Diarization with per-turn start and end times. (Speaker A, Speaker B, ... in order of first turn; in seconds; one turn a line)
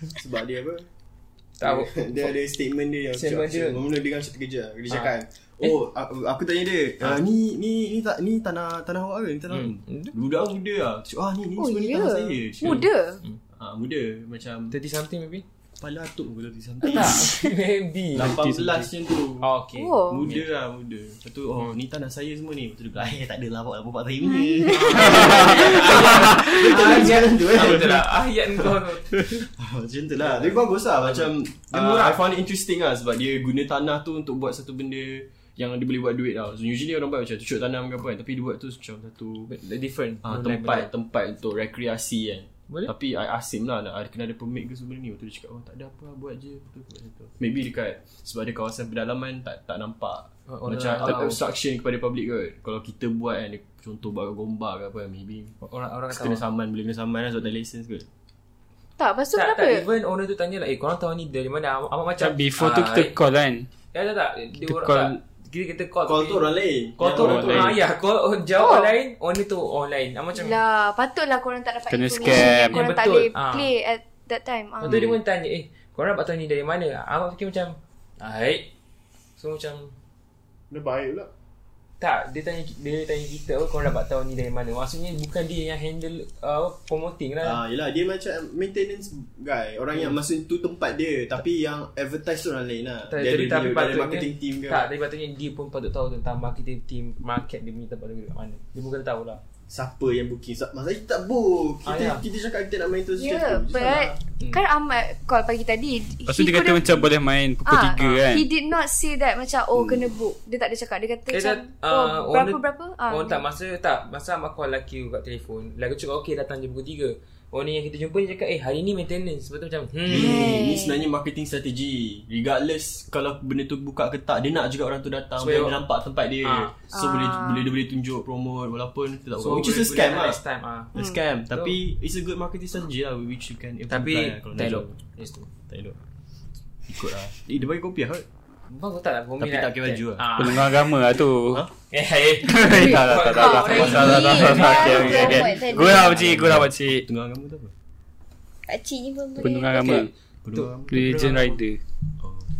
Speaker A: 0.2-0.9
Speaker B: 1.6-2.3
Speaker A: 1.6-12.9
Speaker B: 3.1-3.8
Speaker B: 4.9-5.7
Speaker B: 9.5-10.1
Speaker C: 11.6-13.2
Speaker B: 12.6-13.4
Speaker A: 13.5-14.8
Speaker B: 14.7-15.4
Speaker A: 15.8-17.4
Speaker B: 16.8-18.5
Speaker D: 17.2-17.5
Speaker A: 18.1-19.5
Speaker E: 18.4-18.9
Speaker B: 19.4-20.5
Speaker C: 19.8-20.2
Speaker A: 20.1-39.5
Speaker D: 24.3-25.0
Speaker B: 24.7-29.5
Speaker B: 30.3-32.2
Speaker B: 39.5-40.9
Speaker A: 40.2-55.6
Speaker B: 50.5-51.4
Speaker B: 55.6-56.4
Speaker A: 56.1-58.1
Speaker C: 59.0-59.9
Speaker B: 59.4-63.1
Speaker E: 62.2-63.7
Speaker B: 63.9-70.6
Speaker E: 64.6-65.2
Speaker A: 66.1-67.8
Speaker E: 67.2-67.8
Speaker C: 68.6-68.9
Speaker C: 70.4-75.0
Speaker E: 71.9-72.8
Speaker B: 72.2-73.7
Speaker B: 74.8-78.7
Speaker B: 79.4-79.9
Speaker A: 80.7-81.3
Speaker B: 82.0-87.6
Speaker A: 87.4-94.9
Speaker B: 93.1-99.4
Speaker A: 99.7-104.2
Speaker B: 101.8-102.2
Speaker C: 103.2-107.1
Speaker E: 106.3-108.5
Speaker C: 107.7-113.5
Speaker B: 108.0-108.2
Speaker B: 111.3-120.5
Speaker A: 120.1-130.4
Speaker C: 120.2-120.8
Speaker D: 120.4-120.8
Speaker B: 125.4-125.8
Speaker B: 126.4-126.8
Speaker C: 126.9-127.7
Speaker B: 129.4-130.9
Speaker A: 130.9-135.0
Speaker B: 131.5-131.8
Speaker B: 133.9-135.5
Speaker A: 135.7-136.0
Speaker A: 136.8-138.3
Speaker B: 138.7-140.7
Speaker A: 139.4-140.6
Speaker E: 140.4-141.7
Speaker B: 141.9-145.8
Speaker E: 142.4-147.1
Speaker C: 142.7-144.6
Speaker A: 143.7-147.7
Speaker D: 143.8-146.2
Speaker D: 148.7-150.1
Speaker E: 149.4-150.1
Speaker B: 149.8-150.1
Speaker A: 150.4-151.6
Speaker E: 150.9-151.8
Speaker B: 151.0-151.5
Speaker A: 152.2-152.5